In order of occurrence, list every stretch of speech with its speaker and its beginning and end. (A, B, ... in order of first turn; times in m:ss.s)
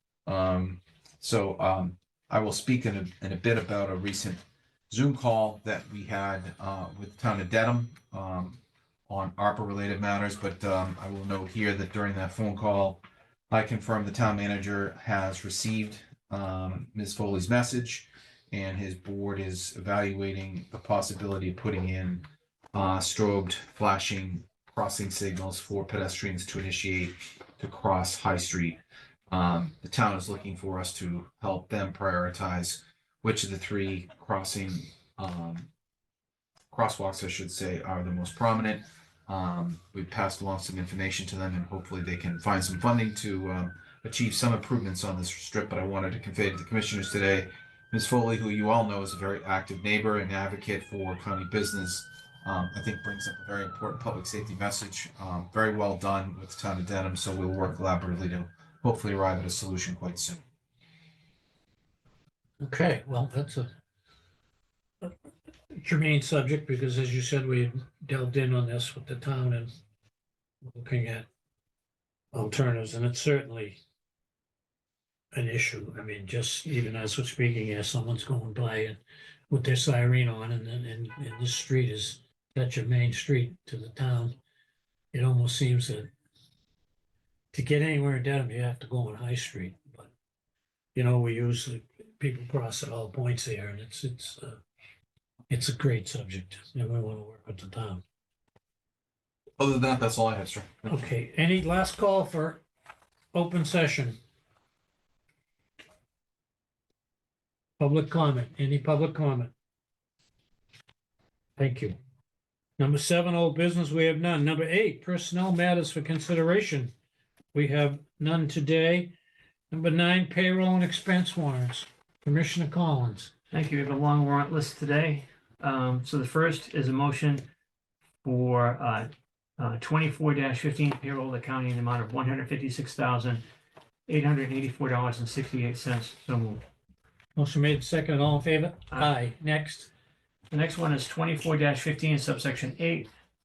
0:00.3-0:28.8 A
0:29.3-0:35.7 A
0:36.7-1:00.4 A
1:02.6-1:03.7 B
1:05.7-1:09.7 B
1:10.6-1:11.3 B
1:12.3-1:13.8 B
1:15.3-1:24.4 B
1:25.1-1:26.1 B
1:27.5-1:30.1 B
1:30.9-1:34.6 B
1:35.5-1:38.0 B
1:39.6-1:41.0 A
1:40.9-1:42.6 B
1:43.3-1:44.2 B
1:47.8-1:49.5 B
1:51.6-1:52.0 B
1:52.8-1:56.9 B
1:57.5-1:59.1 B
1:59.7-2:03.3 B
2:03.5-2:07.5 C
2:08.2-2:13.4 C
2:14.1-2:16.6 C
2:17.3-2:19.9 B
2:20.5-2:23.1 C